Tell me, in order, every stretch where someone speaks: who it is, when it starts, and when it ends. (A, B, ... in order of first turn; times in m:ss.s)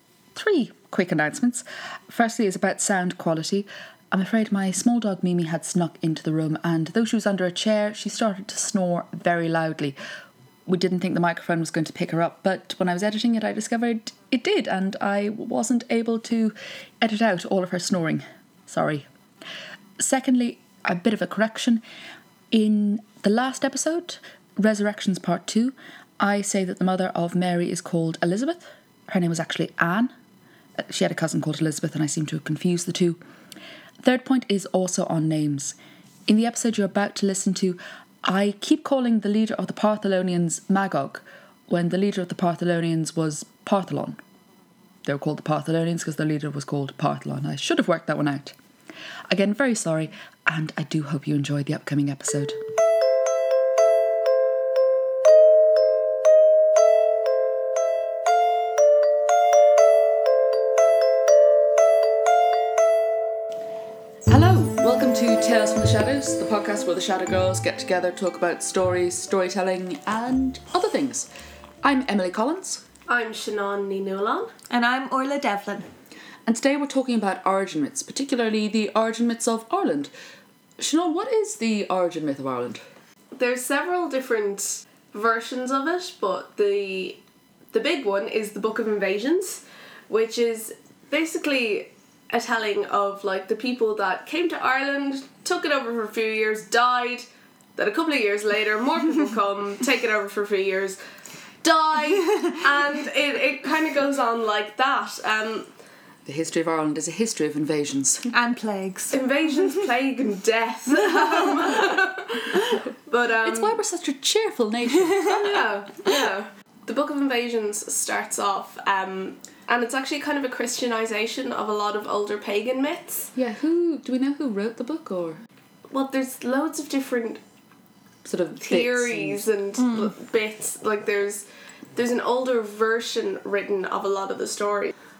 0:00.4-0:10.0 A
0:10.7-0:19.1 A
0:20.0-0:21.8 A
0:22.5-0:30.1 A
0:30.8-0:33.2 A
0:34.0-0:35.8 A
0:36.3-0:44.2 A
0:45.0-0:48.6 A
0:49.3-0:52.6 A
1:04.3-1:11.3 A
1:11.8-1:12.8 A
1:13.1-1:14.5 B
1:14.7-1:15.9 C
1:16.5-1:20.1 A
1:20.8-1:22.8 A
1:23.4-1:27.2 B
1:27.7-1:37.3 B
1:37.8-1:41.0 B
1:41.6-1:45.7 B
1:46.3-1:48.3 A
1:48.3-1:49.9 C
1:49.1-1:53.8 B
1:51.0-1:52.0 C
1:53.4-1:55.6 A
1:55.3-2:03.3 B
2:03.4-2:05.4 A
2:05.9-2:07.4 B
2:08.2-2:09.5 A
2:08.6-2:14.9 B
2:09.8-2:10.1 C